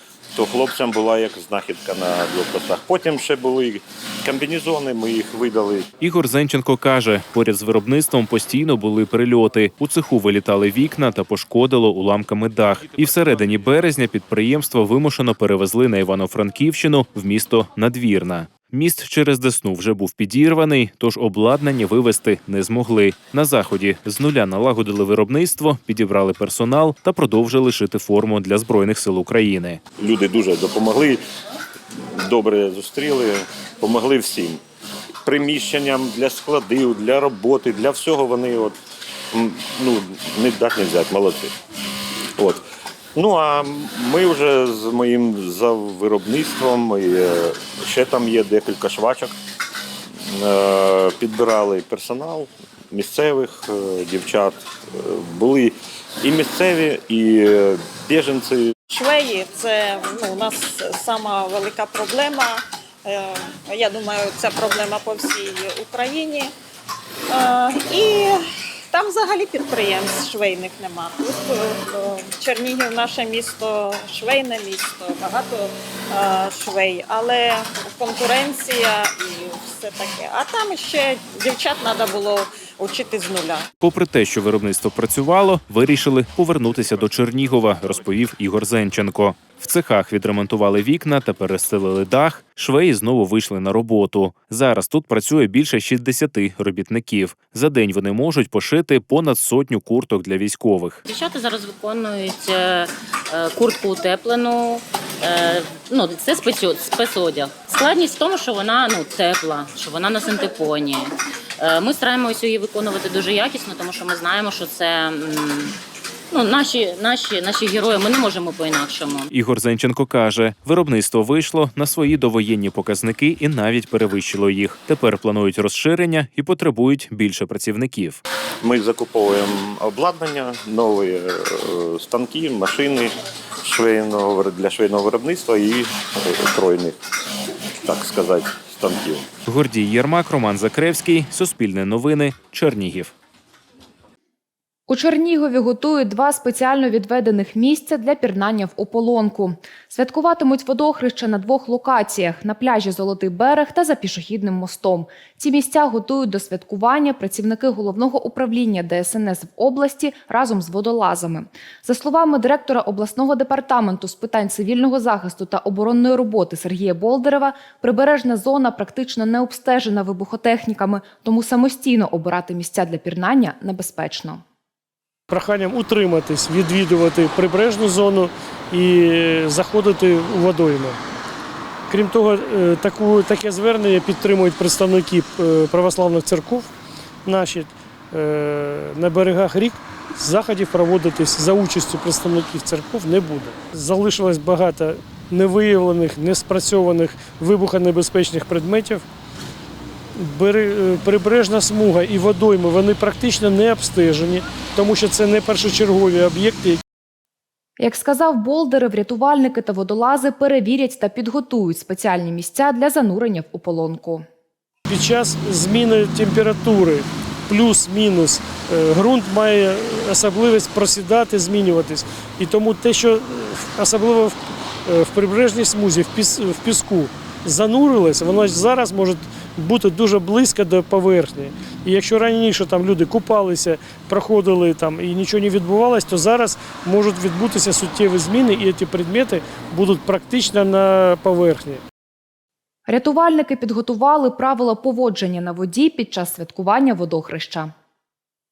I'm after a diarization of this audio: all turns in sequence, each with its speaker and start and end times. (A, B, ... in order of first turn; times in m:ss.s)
0:00.4-0:05.9 A
0:06.0-0:29.8 B
0:30.0-0:31.2 A
0:32.2-0:34.6 A
0:35.2-0:38.8 A
0:39.3-0:41.5 A
0:42.4-0:42.6 A
0:43.2-0:49.3 A
0:50.3-0:58.7 A
0:59.0-1:06.5 C
1:07.4-1:08.4 C
1:08.9-1:23.6 C
1:23.8-1:41.0 B
1:41.1-1:55.8 D
1:56.3-1:59.3 D
1:59.3-2:08.2 B
2:08.6-2:17.0 A
2:17.8-2:19.3 A
2:19.5-2:23.1 B
2:24.9-2:54.4 E
2:55.3-3:01.0 F
3:01.9-3:06.7 F
3:07.3-3:19.0 F
3:20.2-3:26.8 F
3:27.8-3:34.2 E
3:34.9-4:01.8 F
4:02.9-4:07.7 E